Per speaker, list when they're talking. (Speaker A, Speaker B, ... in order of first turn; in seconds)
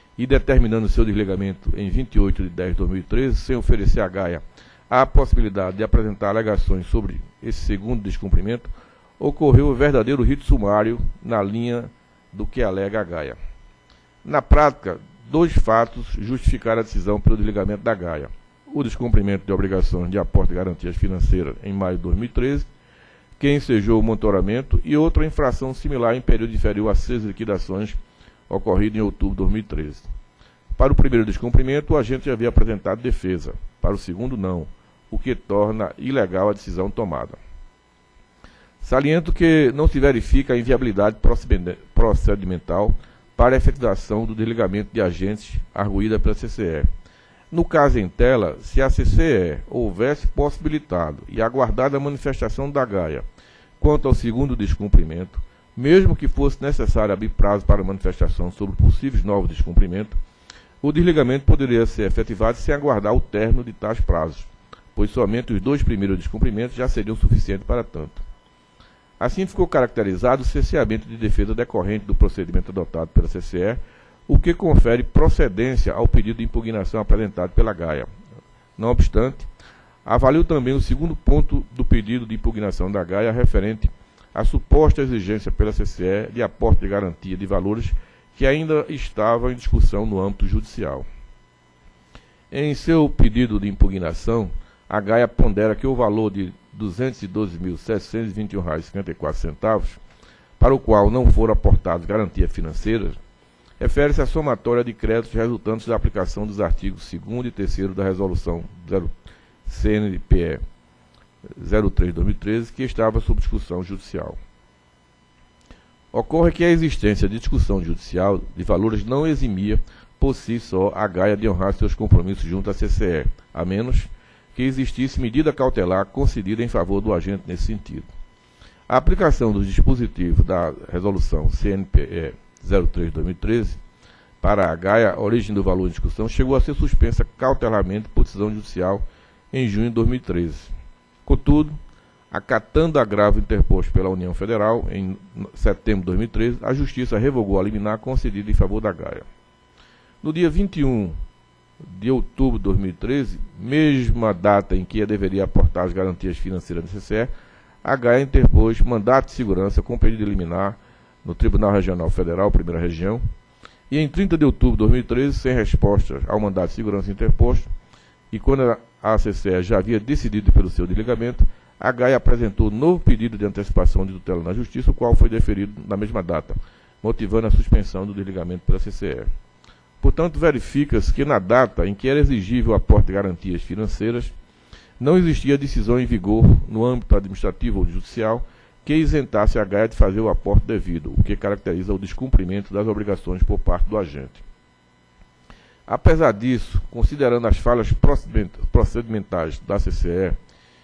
Speaker A: 0.2-8.7, 9.2-13.4, 14.2-22.7, 23.4-28.0, 28.5-30.1, 30.8-37.4, 38.8-46.9, 47.5-53.2, 53.8-60.2, 60.8-68.2, 69.2-78.1, 78.8-79.5, 80.0-91.1, 92.5-100.0, 100.6-103.2, 103.8-109.1, 109.7-110.6, 111.5-114.4, 116.1-128.1, 128.9-133.8, 134.4-140.7, 141.3-141.8, 142.3-149.3, 150.2-151.2, 151.8-157.3, 157.8-163.2, 163.9-167.7, 168.3-179.3, 180.0-184.3, 185.0-194.4, 195.9-200.4